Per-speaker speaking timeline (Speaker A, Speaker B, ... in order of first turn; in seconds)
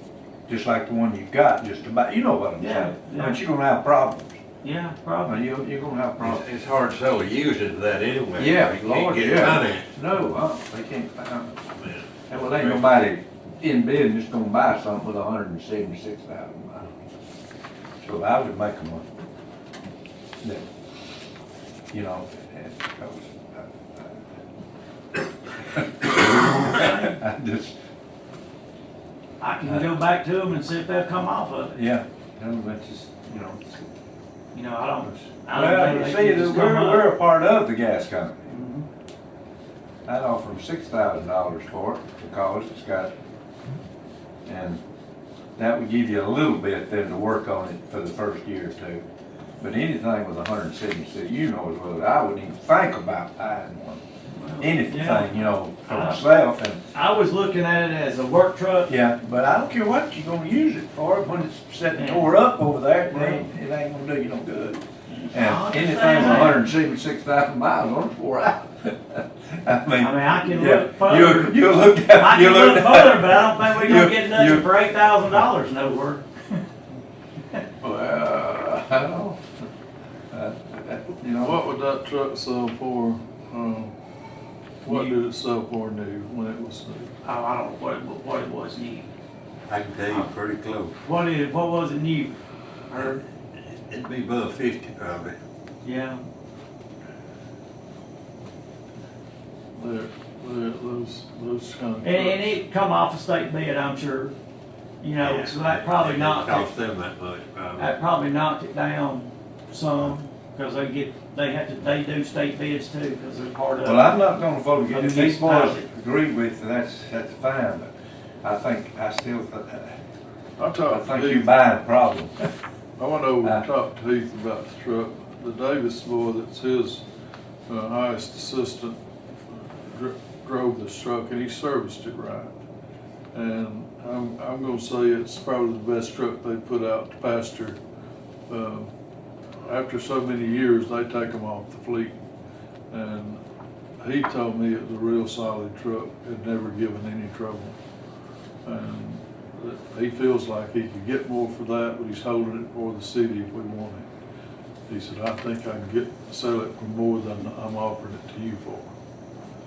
Speaker A: 0.5-4.4, 5.2-6.4, 8.4-11.7, 12.3-16.9, 18.0-19.1, 20.4-20.7, 21.9-24.2, 25.8-27.8, 31.7-33.9, 35.0-38.5, 40.0-43.1, 44.5-44.8, 45.6-49.0, 49.6-54.0, 54.6-56.8, 58.9-64.8, 65.3-74.7, 77.8-79.4, 80.3-81.6, 113.8-117.9, 118.4-120.0, 120.8-122.5
Speaker B: 2.6-3.4, 4.6-5.4, 26.5-27.1, 29.4-31.8, 34.5-37.1, 38.5-38.9, 54.4-56.2, 56.9-58.9, 61.9-62.3, 63.1-63.5, 65.3-66.6, 70.0-76.6, 84.8-85.1, 87.2-89.0, 91.0-92.3, 92.9-93.2, 95.8-96.2, 102.0-104.3, 105.0-106.7, 107.8-114.2, 114.9-115.8
Speaker C: 6.2-9.9, 11.8-12.8, 89.7-90.9, 93.5-95.4, 105.2-107.9
Speaker D: 81.4-83.9, 84.8-87.1, 99.7-102.6, 120.6-121.5, 123.0-127.0, 127.7-129.0, 129.6-132.5, 133.3-137.8, 138.5-138.9, 139.6-142.1, 142.9-143.4, 144.0-147.8, 148.6-154.1, 154.9-158.9